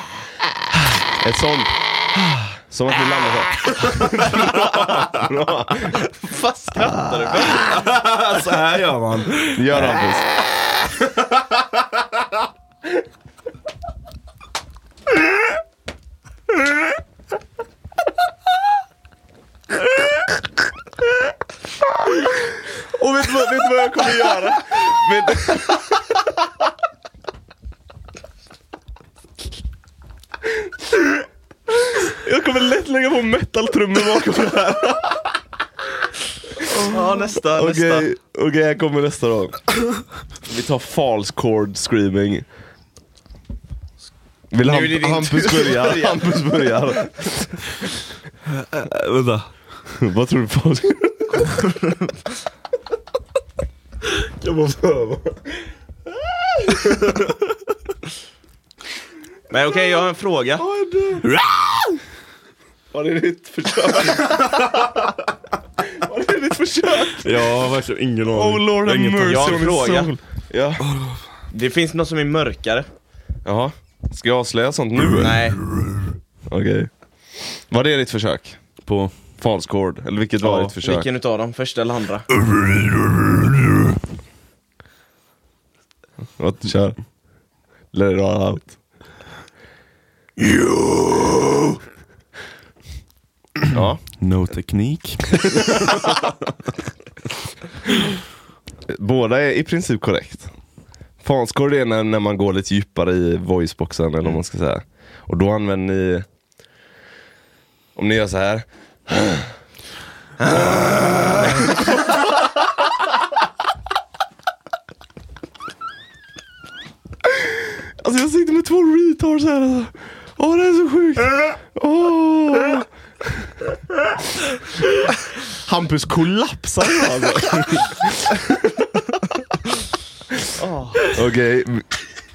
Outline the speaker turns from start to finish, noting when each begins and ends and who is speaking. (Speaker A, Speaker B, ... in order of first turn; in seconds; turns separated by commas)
Speaker A: 0.7-6.0, Speaker B: 5.9-7.8, Speaker C: 7.5-9.8, Speaker A: 9.5-10.3, Speaker A: 22.6-26.3, Speaker A: 31.9-35.4, Speaker B: 36.6-38.1, Speaker A: 37.3-39.7, Speaker A: 40.4-42.5, Speaker A: 44.5-47.3, Speaker B: 44.6-46.9, Speaker C: 48.6-49.5, Speaker A: 49.9-51.6, Speaker B: 51.6-52.1, Speaker C: 54.1-55.4, Speaker B: 59.5-60.6, Speaker A: 60.6-61.3, Speaker C: 61.2-62.0, Speaker A: 62.9-65.0, Speaker A: 65.8-67.5, Speaker C: 67.1-69.7, Speaker A: 68.3-70.8, Speaker B: 69.2-70.1, Speaker C: 70.8-71.2, Speaker B: 71.5-72.9, Speaker A: 73.4-75.4, Speaker B: 75.2-75.6, Speaker A: 76.5-78.6, Speaker C: 78.8-79.1, Speaker A: 79.4-81.1, Speaker C: 80.4-80.7, Speaker B: 80.8-82.3, Speaker C: 82.5-83.7, Speaker A: 86.4-87.0, Speaker A: 87.9-88.8, Speaker A: 93.7-94.0, Speaker C: 94.2-96.2, Speaker A: 98.9-100.5, Speaker A: 101.2-106.2, Speaker A: 108.0-109.5, Speaker A: 110.4-112.2, Speaker A: 117.2-122.9, Speaker A: 125.5-128.9, Speaker B: 130.6-131.1, Speaker A: 131.0-131.9